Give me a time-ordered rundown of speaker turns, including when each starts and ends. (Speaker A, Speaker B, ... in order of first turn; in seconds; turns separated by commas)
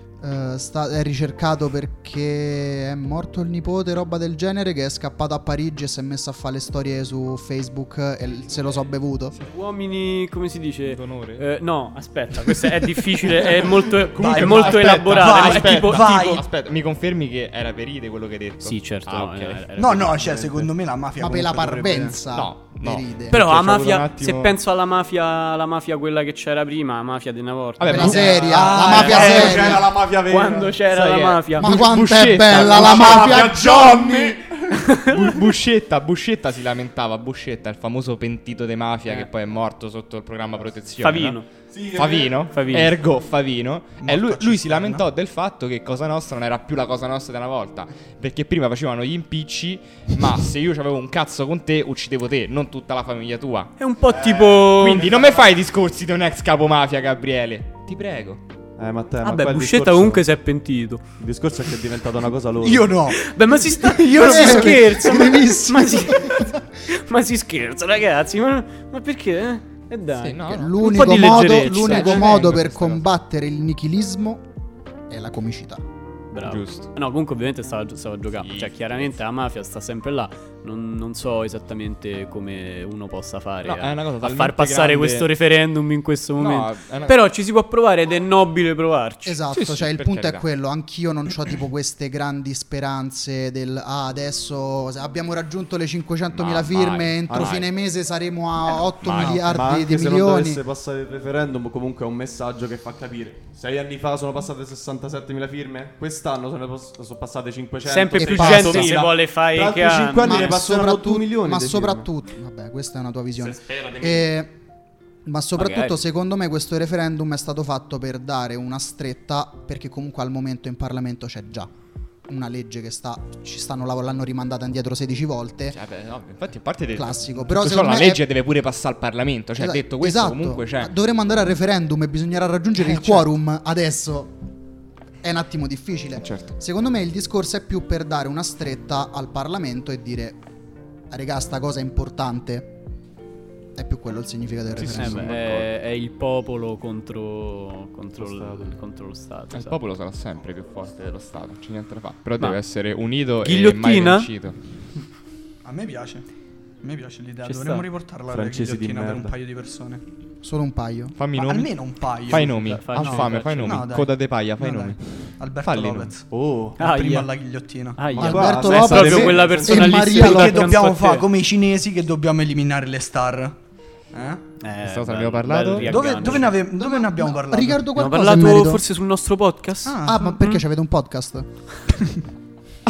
Speaker A: 0.2-9.3, Speaker B: 9.4-16.4, Speaker C: 10.9-11.4, Speaker C: 13.9-19.6, Speaker D: 14.2-16.4, Speaker B: 18.6-20.7, Speaker D: 19.8-22.2, Speaker A: 21.2-23.4, Speaker C: 22.3-24.5, Speaker B: 23.3-29.1, Speaker C: 27.8-28.7, Speaker A: 27.9-29.9, Speaker D: 28.0-29.9, Speaker E: 28.1-30.8, Speaker B: 30.2-31.8, Speaker C: 30.9-41.4, Speaker A: 31.6-33.7, Speaker E: 32.5-34.9, Speaker B: 34.9-35.3, Speaker B: 41.0-41.5, Speaker E: 41.7-42.5, Speaker C: 41.9-53.7, Speaker B: 42.5-42.9, Speaker D: 44.0-45.0, Speaker B: 53.8-55.1, Speaker E: 54.1-55.3, Speaker C: 54.7-58.4, Speaker E: 58.8-60.2, Speaker B: 59.2-61.0, Speaker E: 61.2-62.9, Speaker D: 62.6-63.3, Speaker B: 63.1-72.7, Speaker D: 63.8-65.2, Speaker A: 64.0-66.6, Speaker C: 70.2-73.0, Speaker A: 70.5-74.4, Speaker A: 75.1-75.8, Speaker B: 76.3-89.4, Speaker C: 76.4-76.9, Speaker C: 78.4-79.0, Speaker C: 83.6-85.3, Speaker C: 86.4-87.2, Speaker A: 89.2-100.6, Speaker C: 89.5-90.4, Speaker C: 96.3-97.7, Speaker E: 97.3-97.6, Speaker C: 98.9-99.6, Speaker E: 99.2-112.1, Speaker B: 107.8-110.6, Speaker A: 108.1-109.0, Speaker A: 110.2-114.5, Speaker A: 115.2-121.7, Speaker B: 115.6-115.9, Speaker A: 122.3-125.8, Speaker C: 125.7-130.9, Speaker A: 126.9-128.2, Speaker A: 129.6-134.3, Speaker C: 132.8-133.3, Speaker A: 135.2-140.4, Speaker C: 136.2-136.5, Speaker A: 141.1-142.7, Speaker A: 143.8-145.3, Speaker C: 144.8-145.7, Speaker B: 144.9-149.8, Speaker E: 148.2-148.8, Speaker C: 149.5-154.6, Speaker B: 153.4-154.3, Speaker D: 155.6-156.2, Speaker D: 156.8-160.0, Speaker B: 157.4-157.9, Speaker E: 158.3-159.3, Speaker A: 160.4-161.2, Speaker C: 161.2-166.1, Speaker D: 161.4-166.2, Speaker B: 162.3-163.9, Speaker E: 166.3-166.8, Speaker B: 166.8-167.3, Speaker D: 166.8-168.2, Speaker B: 167.9-171.3, Speaker E: 168.1-170.0, Speaker A: 168.2-170.8, Speaker D: 169.4-173.6, Speaker D: 174.1-174.4, Speaker B: 174.6-176.6, Speaker C: 174.8-176.2, Speaker D: 175.8-177.9, Speaker A: 176.7-178.8, Speaker B: 177.9-180.6, Speaker D: 179.8-180.2, Speaker A: 180.1-181.5